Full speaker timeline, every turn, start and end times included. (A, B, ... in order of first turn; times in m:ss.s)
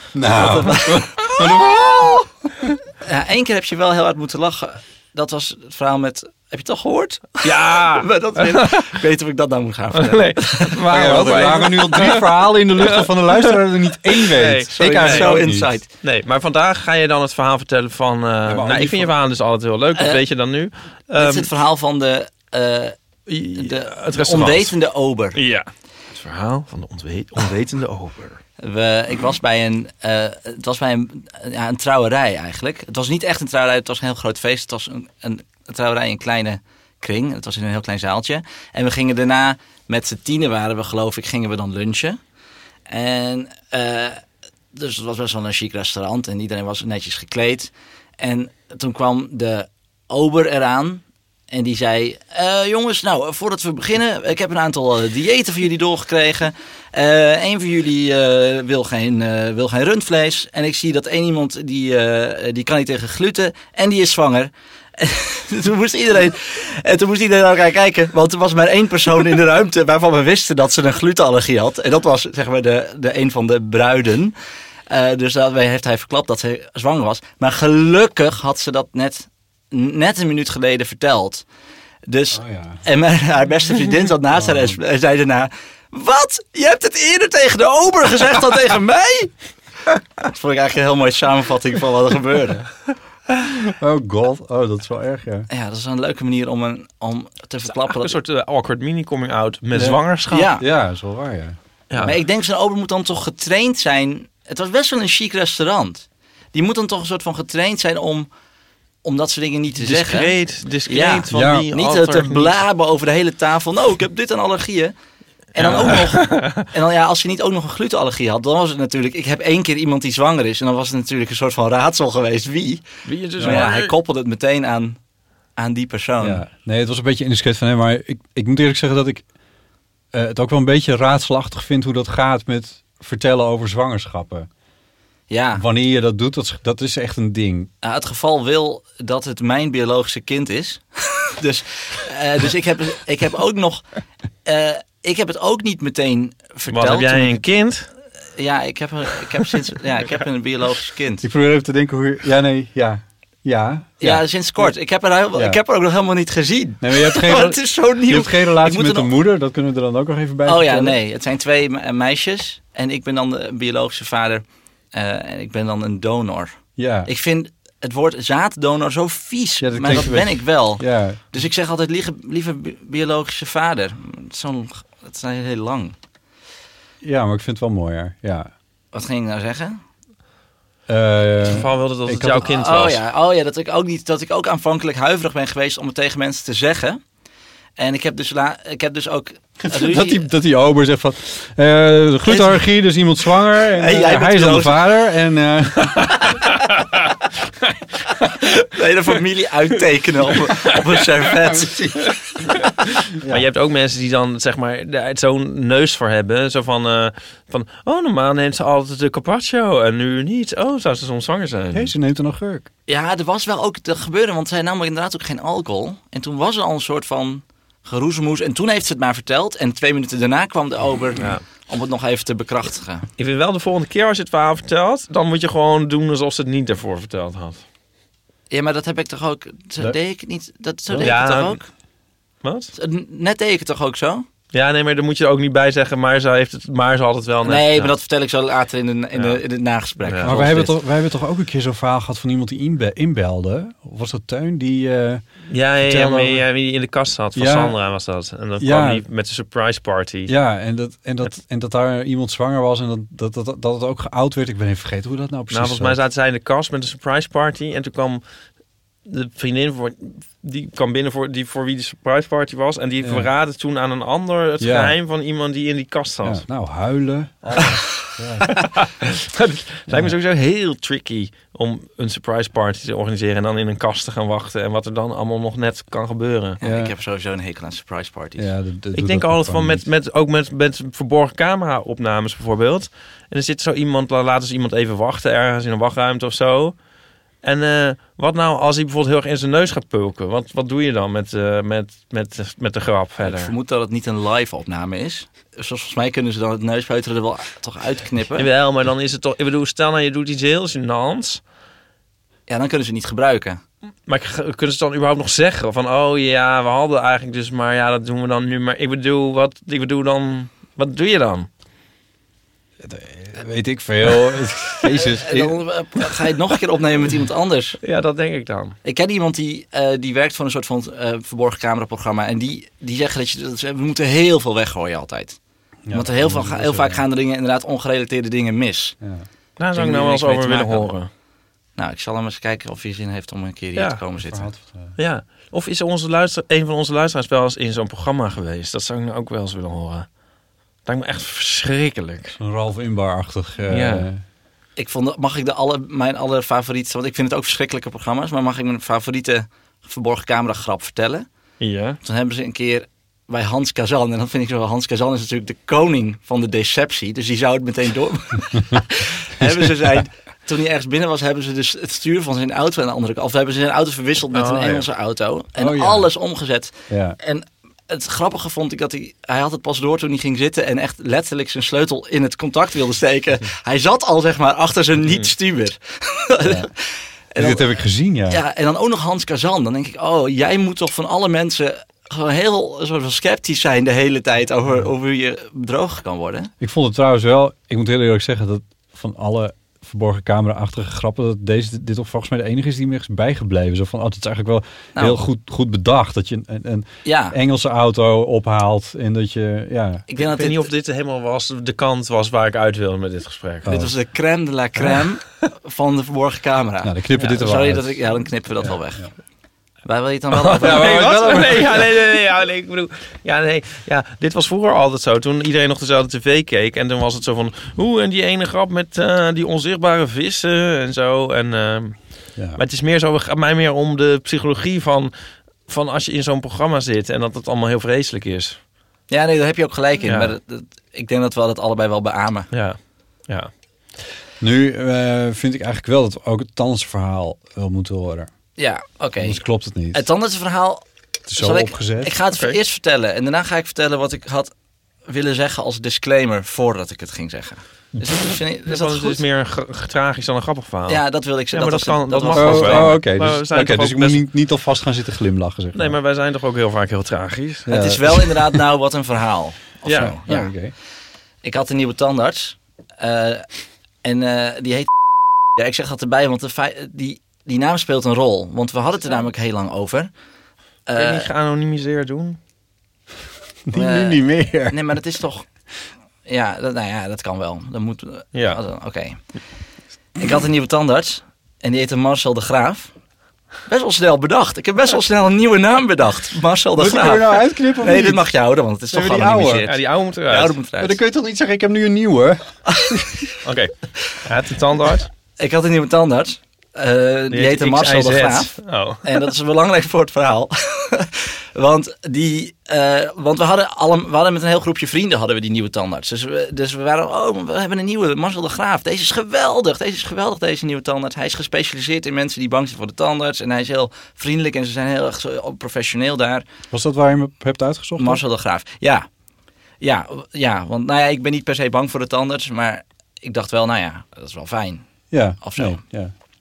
0:00.1-0:01.8 A
0:00.3-0:01.7 B
0:00.4-0:01.3 C
0:03.0-0:12.2 C
0:07.4-0:09.0 B
0:09.9-0:13.6 B
0:10.9-0:15.7 A
0:14.1-0:21.5 B
0:14.7-0:15.9 C
0:18.4-0:19.1 A
0:19.9-0:20.2 C
0:21.1-0:22.9 C
0:23.3-0:24.7 B
0:23.5-0:25.4 C
0:25.3-0:28.4 B
0:28.6-0:42.2 C
0:42.9-0:44.2 C
0:44.7-1:14.3 C
1:14.9-1:21.4 C
1:22.0-1:29.3 C
1:22.3-1:22.8 A
1:24.3-1:24.8 A
1:30.2-1:32.7 C
1:33.5-1:35.5 A
1:35.5-1:38.1 C
1:37.7-1:40.5 B
1:39.7-1:42.1 A
1:40.3-1:40.6 C
1:41.9-1:42.2 B
1:42.0-1:48.3 C
1:49.0-1:50.4 C
1:49.8-1:52.6 B
1:50.9-1:54.9 C
1:51.3-1:51.7 A
1:55.5-2:02.8 C
1:55.6-1:56.6 B
2:03.0-2:03.9 B
2:03.4-2:05.0 C
2:03.4-2:03.7 A
2:05.6-2:06.4 C
2:06.2-2:09.2 A
2:10.1-2:14.5 A
2:15.3-2:15.6 C
2:15.6-2:17.7 A
2:17.8-2:23.8 C
2:24.4-2:27.4 C
2:26.7-2:27.9 B
2:28.4-2:31.2 C
2:31.2-2:34.7 A
2:34.0-2:39.1 C
2:36.8-2:41.0 A
2:40.4-2:55.9 C
2:46.8-2:47.1 A
2:49.6-2:51.2 A
2:57.0-2:58.5 A
2:58.9-2:59.8 C
3:00.9-3:02.5 A
3:01.4-3:03.0 B
3:02.4-3:07.0 C
3:07.8-3:10.2 C
3:09.6-3:16.1 A
3:12.2-3:12.6 C
3:13.6-3:15.0 C
3:16.0-3:16.5 C
3:18.6-3:22.0 C
3:21.5-3:22.1 A
3:23.2-3:23.5 A
3:23.2-3:31.9 B
3:31.7-3:32.7 A
3:32.9-3:43.1 C
3:41.2-3:41.4 B
3:43.2-3:47.6 B
3:48.5-3:51.7 C
3:50.9-3:51.2 A
3:51.0-3:51.6 B
3:52.4-3:52.7 B
3:52.7-3:54.2 C
3:54.5-3:57.9 B
3:57.4-4:00.8 C
3:59.1-3:59.4 B
4:00.0-4:00.4 B
4:00.2-4:06.4 A
4:05.5-4:10.3 B
4:07.3-4:07.8 A
4:08.6-4:09.0 A
4:10.3-4:16.0 A
4:15.5-4:18.2 B
4:19.0-4:26.4 B
4:23.0-4:23.3 A
4:24.6-4:25.0 A
4:26.2-4:28.6 A
4:28.5-4:36.6 B
4:29.9-4:30.2 A
4:36.6-4:38.5 C
4:36.6-4:36.9 A
4:38.4-4:39.8 A
4:38.9-4:46.8 B
4:47.4-4:53.5 B
4:53.2-4:58.5 C
4:58.4-5:01.4 B
5:02.5-5:03.6 C
5:04.0-5:11.5 B
5:12.8-5:15.6 A
5:14.9-5:17.8 C
5:17.8-5:18.8 B
5:18.8-5:25.4 C
5:25.8-5:27.0 A
5:25.9-5:29.0 C
5:29.0-5:29.3 A
5:29.6-5:31.1 B
5:29.7-5:30.9 C
5:31.8-5:34.5 C
5:33.8-5:34.0 B
5:34.2-5:34.9 A
5:35.0-5:40.1 B
5:40.8-5:42.4 B
5:42.4-5:44.2 A
5:43.7-5:44.1 B
5:44.8-5:51.2 C
5:51.6-5:52.0 B
5:52.0-6:16.8 C
6:04.3-6:04.8 B
6:05.6-6:06.1 A
6:06.9-6:07.2 A
6:16.4-6:16.7 A
6:17.3-6:17.7 C
6:17.4-6:18.4 A
6:18.3-6:26.5 C
6:26.6-6:40.0 A
6:34.9-6:35.2 C
6:37.0-6:37.4 C
6:40.1-6:40.7 C
6:40.2-6:43.7 B
6:43.6-6:43.9 A
6:43.6-6:49.1 C
6:46.8-6:48.0 A
6:48.6-6:49.0 A
6:49.8-6:51.3 C
6:50.3-7:05.1 B
6:50.6-6:52.0 A
7:02.3-7:02.6 A
7:05.6-7:08.6 B
7:09.1-7:12.5 C
7:10.0-7:10.3 B
7:12.5-7:13.5 B
7:14.4-7:18.3 A
7:18.6-7:20.8 C
7:19.2-7:20.0 A
7:21.3-7:22.1 A
7:21.3-7:24.5 C
7:22.3-7:22.6 B
7:25.1-7:29.2 C
7:28.6-7:34.2 B
7:30.9-7:33.2 C
7:32.3-7:36.0 A
7:35.7-7:37.7 B
7:37.6-7:38.4 A
7:37.6-7:40.5 C
7:39.8-7:40.2 B
7:39.9-7:40.7 A
7:41.4-7:43.4 C
7:44.0-7:44.9 C
7:45.6-7:50.1 C
7:50.9-7:51.3 C
7:50.9-7:52.4 B
7:53.7-7:54.8 A
7:53.7-7:55.4 C
7:56.2-7:59.2 C
7:58.3-7:58.6 B
8:00.2-8:02.9 C
8:03.7-8:11.0 C
8:06.8-8:08.3 A
8:08.9-8:09.6 A
8:09.6-8:10.6 B
8:10.8-8:13.1 A
8:13.4-8:15.1 B
8:15.4-8:36.4 C
8:17.3-8:19.1 B
8:36.7-8:38.2 A
8:38.0-8:39.1 C
8:39.8-8:44.8 C
8:45.1-8:46.1 A
8:45.4-8:45.8 C